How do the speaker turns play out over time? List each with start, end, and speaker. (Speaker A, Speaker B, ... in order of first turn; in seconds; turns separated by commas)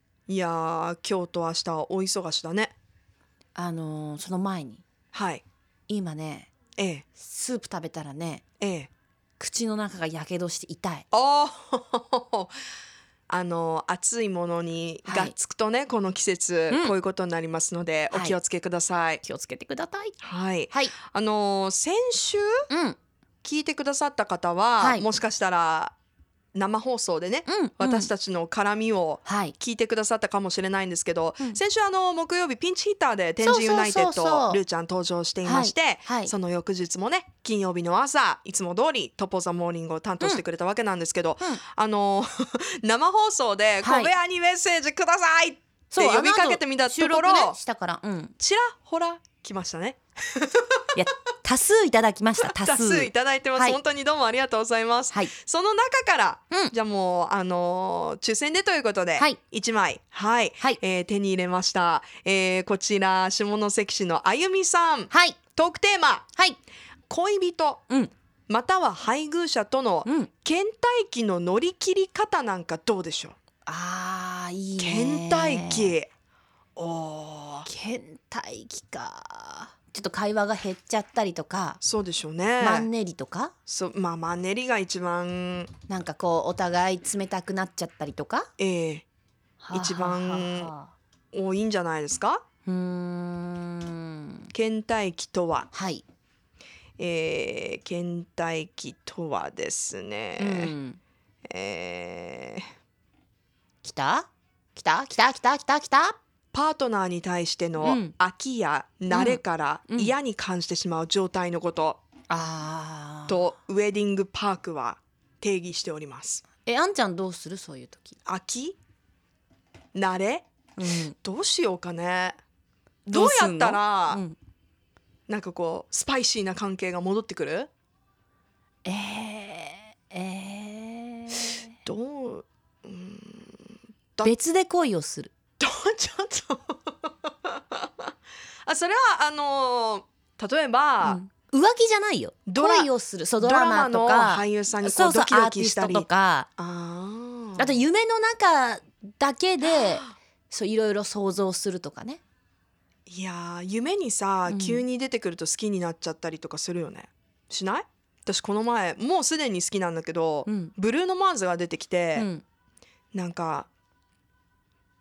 Speaker A: 0.3-2.7, Speaker B: 3.5-4.8, Speaker A: 5.1-5.4, Speaker B: 5.9-6.5, Speaker A: 6.8-7.1, Speaker B: 7.2-8.4, Speaker A: 8.6-8.9, Speaker B: 9.4-11.1, Speaker A: 11.1-12.5, Speaker A: 13.3-19.2, Speaker B: 15.1-15.3, Speaker B: 18.1-18.4, Speaker B: 19.2-20.1, Speaker A: 20.2-22.7, Speaker B: 22.7-23.0, Speaker A: 23.4-25.9, Speaker B: 24.8-25.1, Speaker A: 26.5-47.6, Speaker B: 27.5-28.1, Speaker B: 29.3-29.6, Speaker B: 33.4-34.6, Speaker B: 35.4-36.3, Speaker B: 43.8-44.1, Speaker B: 45.9-48.3, Speaker A: 48.4-50.8, Speaker B: 51.0-53.8, Speaker A: 52.5-66.3, Speaker B: 65.1-65.4, Speaker A: 67.1-67.8, Speaker A: 68.5-73.4, Speaker B: 73.7-76.0, Speaker A: 74.8-76.1, Speaker A: 76.8-77.7, Speaker B: 77.7-81.8, Speaker A: 81.8-82.9, Speaker B: 82.6-83.5, Speaker A: 83.7-85.7, Speaker B: 85.9-88.5, Speaker A: 88.6-89.0, Speaker B: 89.6-90.9, Speaker A: 89.7-90.7, Speaker A: 91.3-92.4, Speaker B: 92.7-94.5, Speaker A: 94.5-95.7, Speaker B: 95.7-96.0, Speaker A: 97.0-100.7, Speaker B: 100.4-101.0, Speaker A: 101.5-102.7, Speaker B: 103.8-106.2, Speaker A: 106.5-112.0, Speaker B: 107.8-108.1, Speaker B: 109.1-110.1, Speaker B: 112.3-113.5, Speaker A: 113.3-116.4, Speaker B: 116.7-118.2, Speaker A: 118.2-118.8, Speaker A: 120.0-120.5, Speaker B: 120.8-121.2, Speaker A: 121.2-122.4, Speaker B: 123.1-124.4, Speaker A: 123.1-124.2, Speaker A: 125.3-127.7, Speaker B: 128.8-131.7, Speaker A: 131.8-134.3, Speaker B: 134.2-135.3, Speaker A: 135.6-138.1, Speaker A: 138.7-141.2, Speaker B: 141.0-146.5, Speaker A: 142.5-142.9, Speaker A: 143.4-147.8, Speaker B: 147.6-152.2, Speaker A: 149.7-150.2, Speaker A: 153.1-162.3, Speaker B: 154.5-154.8, Speaker B: 160.5-160.7, Speaker B: 162.2-162.4, Speaker A: 163.1-163.7